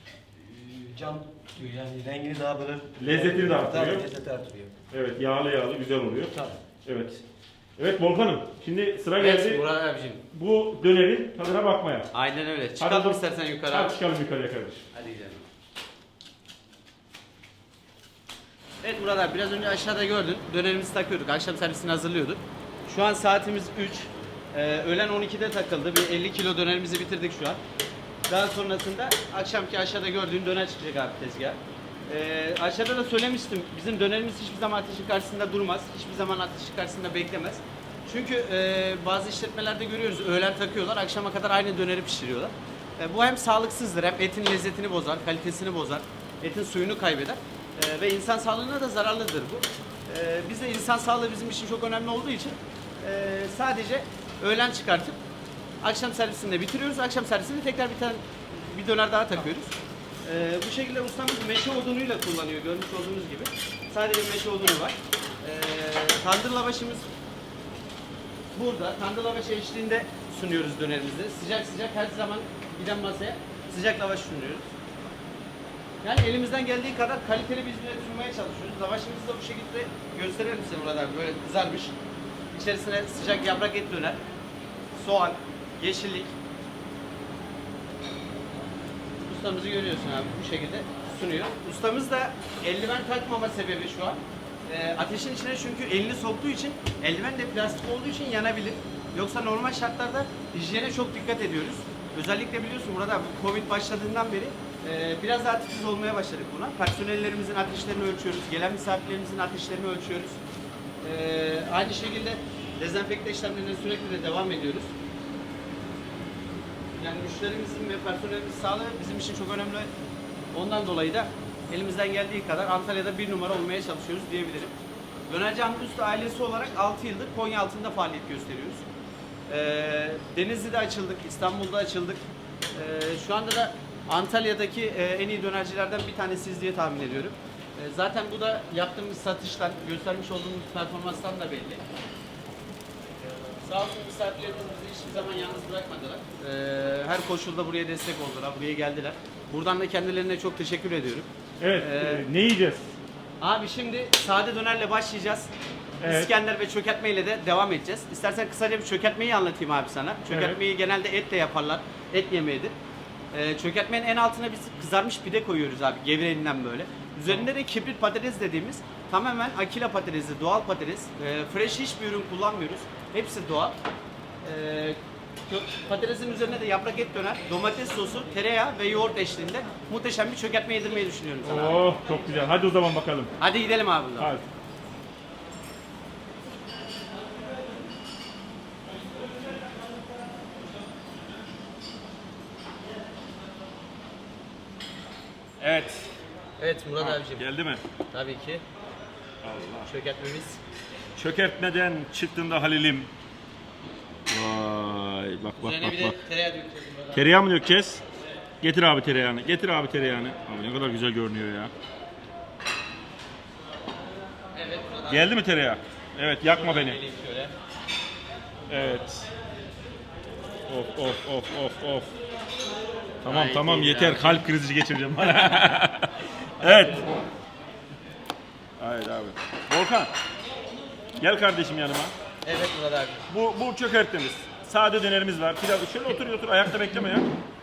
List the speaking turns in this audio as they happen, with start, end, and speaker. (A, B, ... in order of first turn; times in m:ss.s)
0:00.4-0:04.7 A
0:03.0-0:04.0 B
0:04.9-0:07.2 B
0:07.8-0:09.6 B
0:09.2-0:10.2 C
0:10.3-0:12.1 B
0:12.1-0:14.0 C
0:12.8-0:14.8 B
0:14.9-0:15.4 C
0:18.8-0:27.6 C
0:28.3-0:55.2 C
0:55.8-0:59.7 C
1:00.2-1:07.1 C
1:08.5-1:14.7 C
1:16.0-1:21.9 C
1:22.5-1:24.2 C
1:25.0-1:26.3 C
1:29.2-1:50.4 C
1:51.0-1:54.9 C
1:57.0-1:59.9 C
2:00.5-2:04.7 C
2:05.3-2:08.8 C
2:09.5-2:12.2 C
2:12.7-2:21.8 C
2:23.6-2:32.2 C
2:31.6-2:32.9 B
2:33.4-2:35.5 C
2:36.0-2:36.3 B
2:36.0-2:42.7 C
2:40.3-2:40.6 B
2:43.3-2:53.8 C
2:54.4-3:01.8 C
3:01.4-3:03.3 B
3:03.4-3:04.3 C
3:04.2-3:04.4 B
3:15.6-3:16.1 B
3:16.6-3:17.4 C
3:17.0-3:17.8 B
3:18.1-3:18.6 C
3:19.4-3:19.9 B
3:19.8-3:20.6 C
3:21.2-3:23.1 B
3:24.3-3:26.2 B
3:25.6-3:27.3 C
3:27.1-3:28.0 B
3:28.6-3:31.7 B
3:34.5-3:35.3 C
3:35.1-3:37.0 B
3:36.5-3:37.5 C
3:38.7-3:39.3 B
3:40.7-3:42.1 B
3:43.2-3:47.1 B
3:43.2-3:44.4 C
3:46.6-3:47.0 C
3:48.8-3:50.1 B
3:51.2-3:52.1 B
3:52.4-3:53.2 C
3:53.3-3:57.3 B